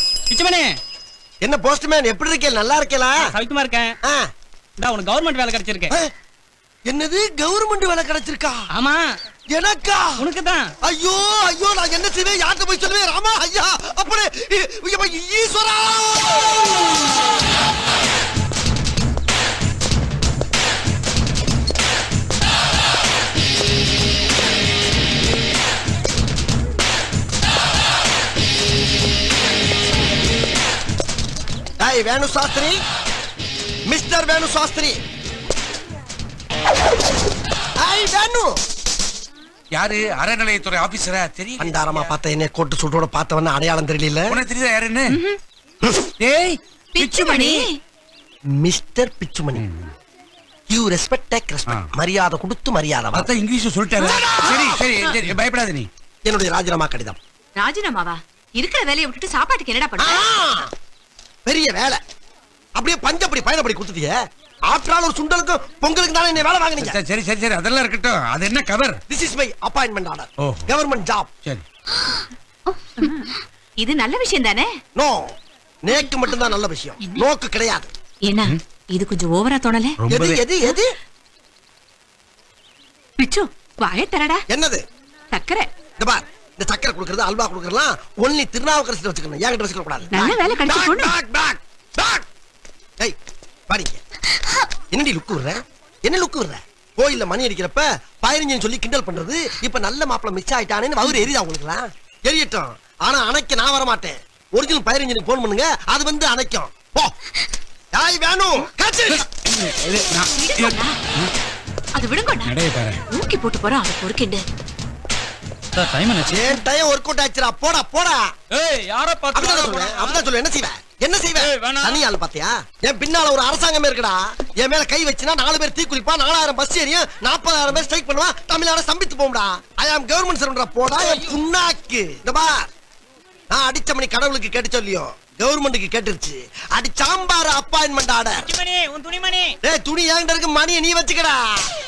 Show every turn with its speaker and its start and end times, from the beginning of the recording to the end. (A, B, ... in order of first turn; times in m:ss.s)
0:00.3-0:00.7 A
0:01.4-0:03.3 B
0:03.2-0:03.9 A
0:04.8-0:05.9 A
0:06.9-0:08.6 B
0:08.8-0:09.0 A
0:09.5-0:10.3 B
0:10.2-0:10.7 A
0:10.8-0:16.6 B
0:31.8-0:32.8 B
0:33.9-0:35.0 B
0:37.8-0:38.6 B
0:39.7-0:42.1 C
0:41.6-0:44.4 B
0:44.3-0:45.2 C
0:45.1-0:45.4 D
0:46.2-0:47.7 C
0:46.9-0:47.8 D
0:48.6-0:49.6 B
0:49.6-0:49.9 C
0:50.7-0:53.3 B
0:53.1-0:55.9 C
0:54.0-0:54.8 B
0:54.2-0:54.8 D
0:56.2-0:57.2 B
0:57.6-1:00.2 D
1:00.0-1:00.7 B
1:01.4-1:02.0 B
1:02.8-1:04.2 B
1:04.7-1:07.0 B
1:06.8-1:09.0 C
1:09.1-1:11.3 B
1:12.9-1:14.7 D
1:15.0-1:15.3 B
1:15.8-1:17.9 B
1:18.2-1:20.0 D
1:20.0-1:20.4 C
1:20.1-1:20.9 B
1:23.2-1:24.4 D
1:24.5-1:24.8 B
1:25.3-1:25.7 D
1:26.0-1:32.2 B
1:30.1-1:31.2 D
1:33.7-1:34.0 B
1:34.9-1:47.1 B
1:47.9-1:49.3 B
1:49.2-1:51.3 C
1:50.3-1:51.0 D
1:51.9-1:52.5 D
1:52.4-1:53.0 C
1:53.1-1:54.4 D
1:55.8-1:56.4 A
1:56.2-1:58.3 B
1:58.5-2:00.2 A
1:59.3-2:12.7 B
2:01.4-2:02.0 A
2:13.5-2:18.5 B
2:18.4-2:19.5 A
2:19.6-2:21.7 B